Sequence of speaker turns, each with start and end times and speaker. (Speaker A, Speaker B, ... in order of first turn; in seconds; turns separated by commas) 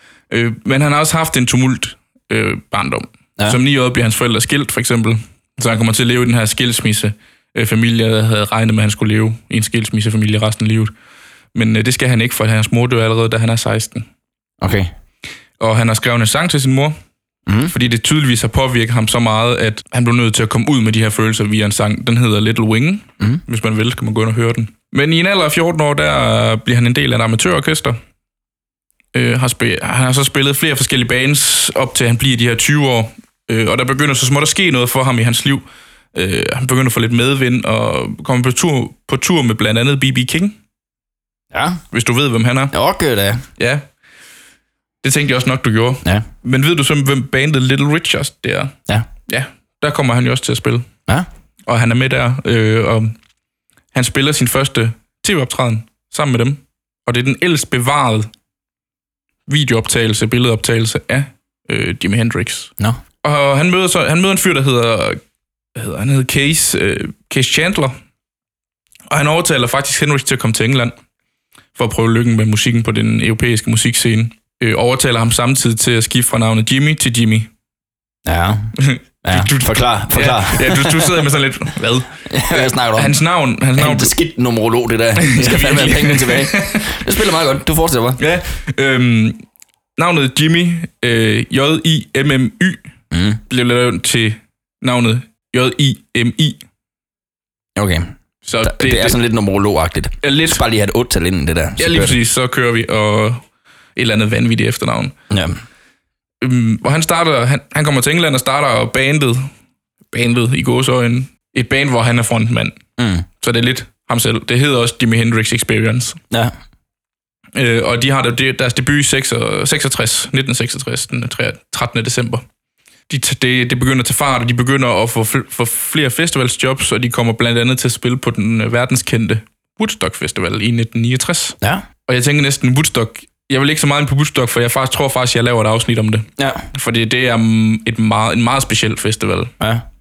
Speaker A: 0.3-10.9, Speaker A: 11.5-14.1, Speaker B: 14.6-14.9, Speaker A: 15.6-16.9, Speaker B: 17.5-17.7, Speaker A: 17.7-28.0, Speaker A: 29.1-40.6, Speaker B: 41.5-41.8, Speaker A: 41.9-42.7, Speaker B: 42.7-43.4, Speaker A: 43.6-43.9, Speaker A: 45.0-48.8, Speaker A: 49.3-50.9, Speaker A: 51.7-53.2, Speaker A: 53.9-58.3, Speaker A: 59.5-62.7, Speaker A: 63.2-65.2, Speaker A: 65.8-68.0, Speaker A: 69.1-71.0, Speaker A: 71.8-77.5, Speaker B: 78.3-81.2, Speaker A: 78.8-84.2, Speaker B: 82.3-83.2, Speaker B: 83.8-88.2, Speaker A: 85.2-87.0, Speaker A: 88.2-89.4, Speaker A: 90.0-92.9, Speaker B: 93.1-93.4, Speaker A: 93.5-96.6, Speaker B: 97.8-98.1, Speaker A: 98.5-99.2, Speaker B: 98.6-102.2, Speaker A: 100.2-100.6, Speaker A: 101.8-103.4, Speaker A: 104.0-105.2, Speaker B: 105.3-105.6, Speaker A: 106.4-109.5, Speaker A: 110.1-112.8, Speaker B: 113.0-113.3, Speaker A: 113.4-116.2, Speaker A: 117.5-122.4, Speaker A: 123.1-139.5, Speaker B: 131.6-131.9, Speaker B: 136.4-136.7